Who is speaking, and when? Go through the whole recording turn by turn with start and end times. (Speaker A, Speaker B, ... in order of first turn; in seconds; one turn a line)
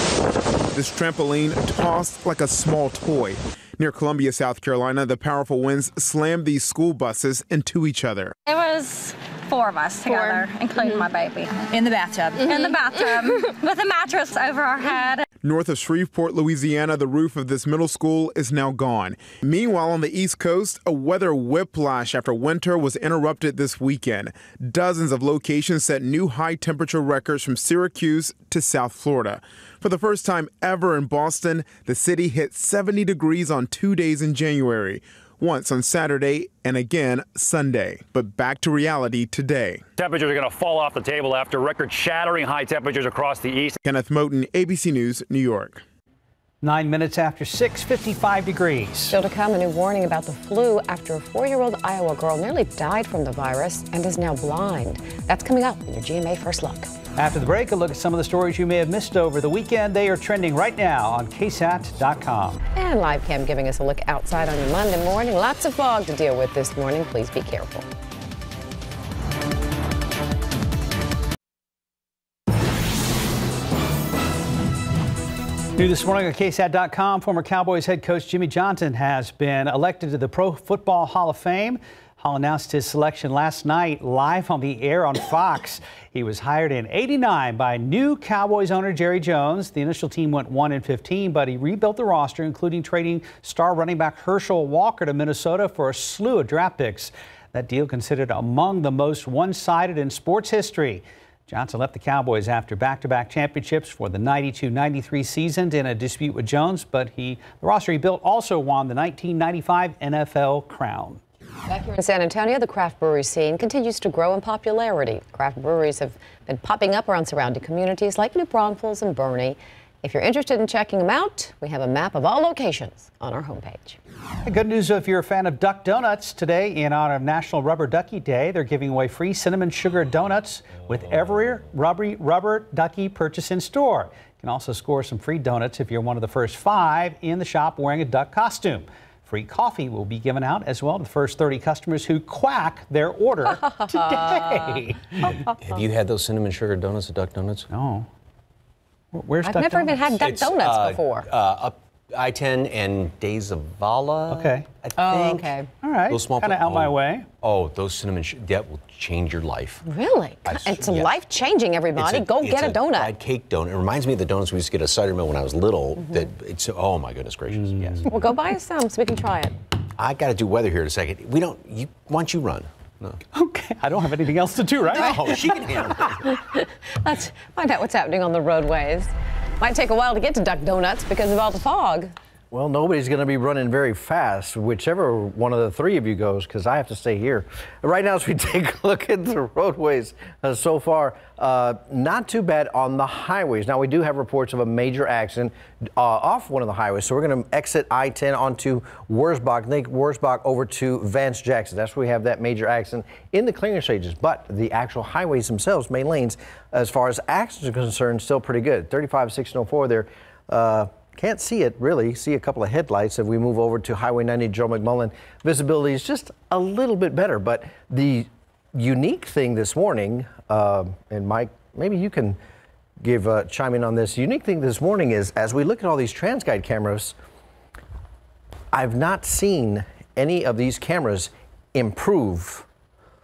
Speaker A: 0.7-8.3
Speaker B: 8.4-15.2
Speaker A: 15.4-39.8
Speaker C: 40.0-43.8
Speaker A: 43.8-45.8
Speaker D: 46.6-49.1
Speaker E: 49.1-56.9
Speaker D: 57.2-62.6
Speaker E: 62.8-67.8
Speaker D: 75.8-111.2
Speaker E: 111.7-124.0
Speaker D: 124.5-145.3
Speaker E: 143.5-144.7
Speaker E: 145.2-145.5
Speaker F: 145.6-147.7
Speaker D: 147.7-148.1
Speaker D: 149.1-150.0
Speaker E: 149.4-151.3
Speaker F: 150.2-155.5
Speaker D: 154.3-154.7
Speaker E: 155.0-155.7
Speaker D: 155.8-157.3
Speaker F: 156.1-159.8
Speaker E: 159.8-163.1
Speaker F: 160.4-161.1
Speaker F: 161.9-168.3
Speaker D: 167.6-168.1
Speaker E: 168.1-169.6
Speaker F: 170.0-173.2
Speaker D: 173.3-175.2
Speaker F: 174.9-176.2
Speaker E: 176.0-182.1
Speaker G: 182.5-222.4
Speaker G: 223.0-227.1
Speaker G: 228.7-232.7